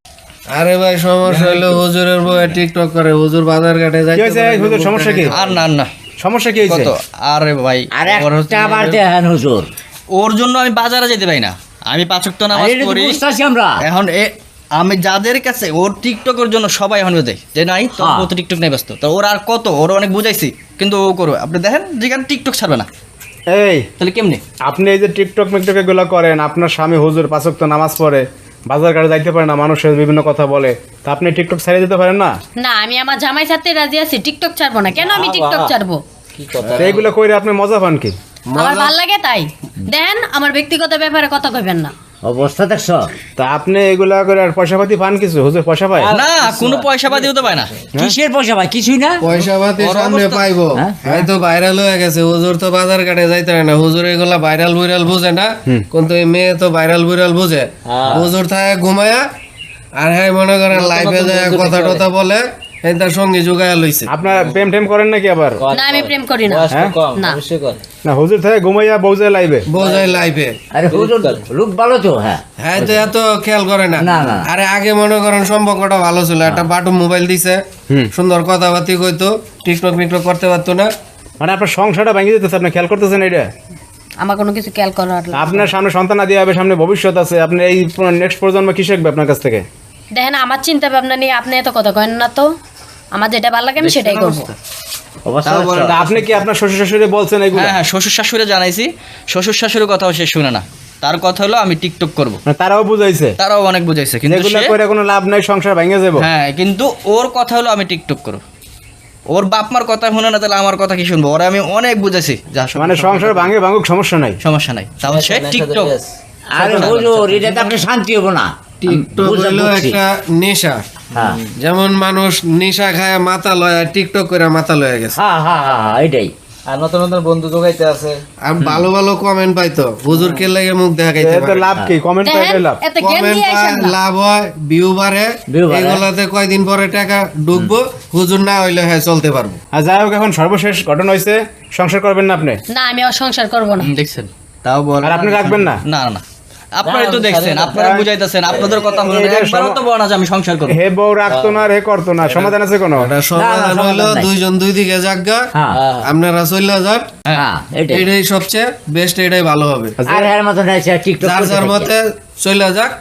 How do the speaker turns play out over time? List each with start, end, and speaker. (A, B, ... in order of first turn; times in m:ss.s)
0:00.5-0:05.3 A
0:04.2-0:05.4 B
0:05.3-0:05.9 C
0:06.2-0:06.9 B
0:06.6-0:09.0 C
0:07.9-0:09.7 D
0:10.2-0:13.2 C
0:12.5-0:13.8 D
0:13.8-0:22.9 C
0:18.0-0:18.3 D
0:23.5-0:23.9 B
0:24.0-0:24.4 C
0:24.6-0:32.4 B
0:32.6-0:36.0 E
0:35.0-0:35.8 F
0:36.4-0:37.1 F
0:36.8-0:38.2 B
0:38.5-0:38.9 A
0:38.6-0:41.9 E
0:42.2-0:43.1 D
0:43.4-0:46.1 B
0:45.9-0:47.9 F
0:46.1-0:47.7 C
0:48.0-0:49.2 D
0:49.2-0:59.2 A
0:49.8-0:50.5 C
0:57.9-0:58.3 F
1:00.0-1:04.1 A
1:00.7-1:02.0 F
1:04.1-1:05.6 B
1:04.2-1:04.7 F
1:05.6-1:07.8 F
1:05.7-1:07.4 E
1:06.7-1:07.0 B
1:08.0-1:09.7 B
1:09.7-1:10.5 A
1:09.7-1:10.3 F
1:10.7-1:12.4 D
1:10.9-1:11.4 F
1:12.6-1:17.6 A
1:14.0-1:14.5 D
1:18.1-1:20.9 A
1:21.4-1:23.5 B
1:24.2-1:25.7 E
1:25.3-1:29.7 B
1:30.1-1:32.5 E
1:33.1-1:34.5 E
1:33.8-1:34.5 C
1:35.3-1:36.0 D
1:35.4-1:36.4 C
1:35.9-1:37.8 B
1:37.5-1:42.4 C
1:42.5-1:43.4 B
1:43.4-1:44.8 C
1:44.3-1:46.3 B
1:46.2-1:48.4 C
1:49.3-1:53.5 C
1:52.8-1:54.4 B
1:54.4-1:56.0 C
1:55.0-1:57.7 F
1:56.5-2:00.0 D
1:56.6-1:57.0 B
1:58.8-2:00.8 A
2:01.1-2:01.4 D
2:01.1-2:01.5 F
2:01.6-2:05.2 A
2:05.2-2:06.3 D
2:06.7-2:08.2 F
2:08.5-2:11.7 A
2:11.2-2:12.8 B
2:12.2-2:14.0 E
2:13.0-2:19.6 A
2:15.5-2:16.1 D
2:19.7-2:22.6 B
2:22.7-2:23.9 E
2:23.8-2:26.2 C
2:25.0-2:25.8 B
2:26.8-2:30.8 C
2:26.8-2:27.8 F
2:27.7-2:28.0 B
2:28.5-2:28.8 F
2:28.9-2:29.8 B
2:30.7-2:33.1 B
2:31.3-2:32.6 F
2:33.0-2:35.4 A
2:33.3-2:34.3 D
2:35.7-2:36.1 F
2:36.1-2:37.1 A
2:37.4-2:38.0 D
2:37.9-2:40.0 A
2:40.0-2:40.3 B
2:40.1-2:41.9 D
2:41.2-2:42.9 A